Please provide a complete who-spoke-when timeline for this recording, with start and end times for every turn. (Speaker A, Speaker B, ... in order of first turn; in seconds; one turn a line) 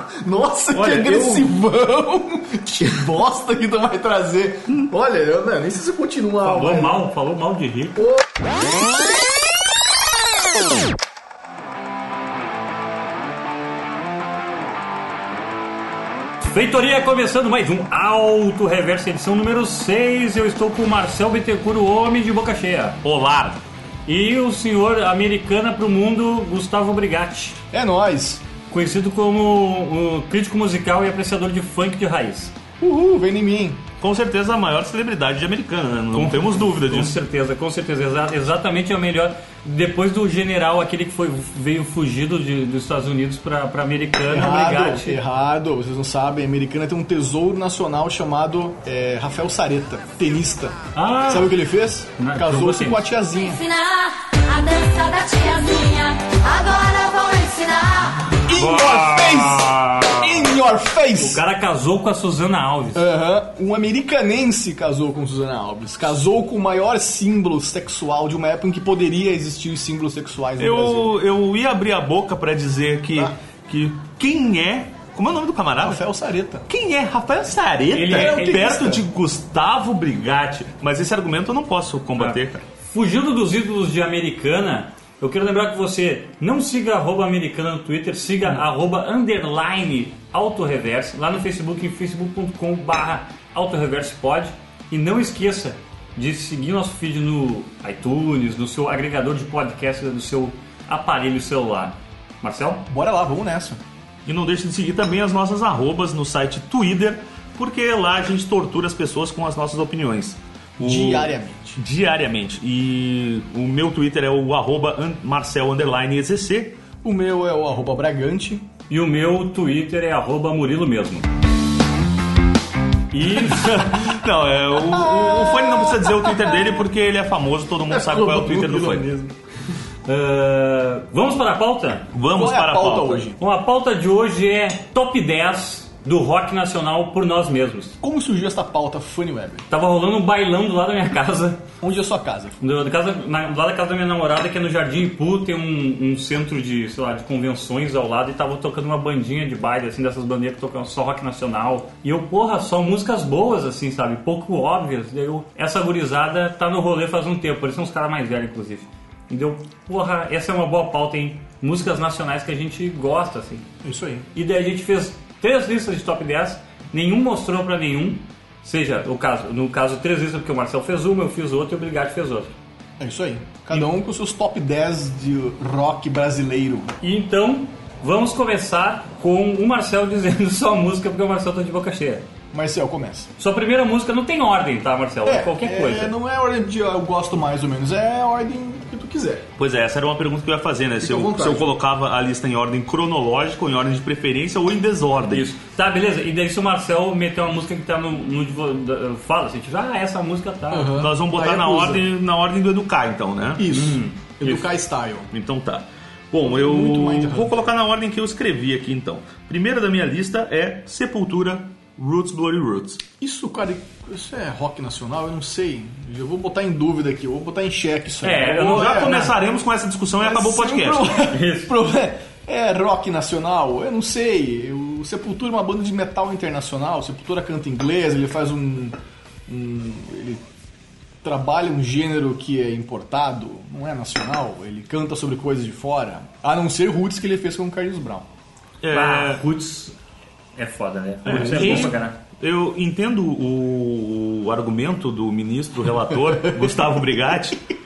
Speaker A: 0.2-7.1
Speaker B: 0.7-1.5
Speaker C: 6.4-8.1
Speaker A: 8.0-8.3
Speaker C: 16.5-23.0
Speaker B: 23.0-23.6
Speaker C: 24.1-27.6
Speaker A: 27.7-28.4
Speaker C: 28.7-32.5
Speaker A: 32.8-33.9
Speaker B: 34.0-37.2
Speaker C: 36.1-45.2
Speaker A: 44.3-53.7
Speaker C: 51.0-51.6
Speaker C: 52.2-53.0
Speaker D: 53.6-58.2
Speaker A: 58.4-61.4
Speaker C: 58.5-60.5
Speaker C: 61.1-63.1
Speaker A: 62.9-71.2
Speaker B: 70.6-76.0
Speaker A: 75.8-76.7
Speaker B: 76.7-82.6
Speaker C: 77.9-78.7
Speaker A: 78.0-79.0
Speaker C: 82.2-102.9
Speaker A: 102.9-103.8
Speaker B: 104.2-116.8
Speaker A: 110.8-111.8
Speaker A: 117.0-118.7
Speaker C: 118.9-121.3
Speaker C: 123.1-123.8
Speaker B: 123.3-129.1
Speaker A: 124.8-126.6
Speaker A: 127.9-129.3
Speaker C: 130.1-132.1
Speaker B: 132.1-133.3
Speaker A: 132.3-133.4
Speaker C: 133.4-138.0
Speaker A: 138.0-139.7
Speaker C: 139.7-141.6
Speaker A: 141.8-142.6
Speaker C: 142.6-163.7
Speaker A: 163.8-164.3
Speaker C: 164.3-172.5
Speaker A: 173.0-176.9
Speaker C: 177.0-182.2
Speaker A: 182.5-183.3
Speaker C: 183.4-186.1
Speaker A: 185.2-189.5
Speaker B: 189.6-195.5
Speaker A: 191.0-191.7
Speaker C: 195.3-201.0
Speaker A: 200.7-202.1
Speaker B: 201.0-203.7
Speaker A: 203.6-205.3
Speaker C: 203.7-204.7
Speaker B: 205.3-213.0
Speaker A: 206.4-207.7
Speaker A: 213.2-219.3
Speaker C: 218.2-219.2
Speaker B: 218.5-221.3
Speaker A: 220.2-228.9
Speaker C: 221.3-221.8
Speaker A: 229.5-230.4
Speaker A: 231.2-238.2
Speaker B: 238.8-239.4
Speaker C: 238.9-239.9
Speaker C: 240.6-242.2
Speaker B: 241.2-247.7
Speaker A: 241.3-241.9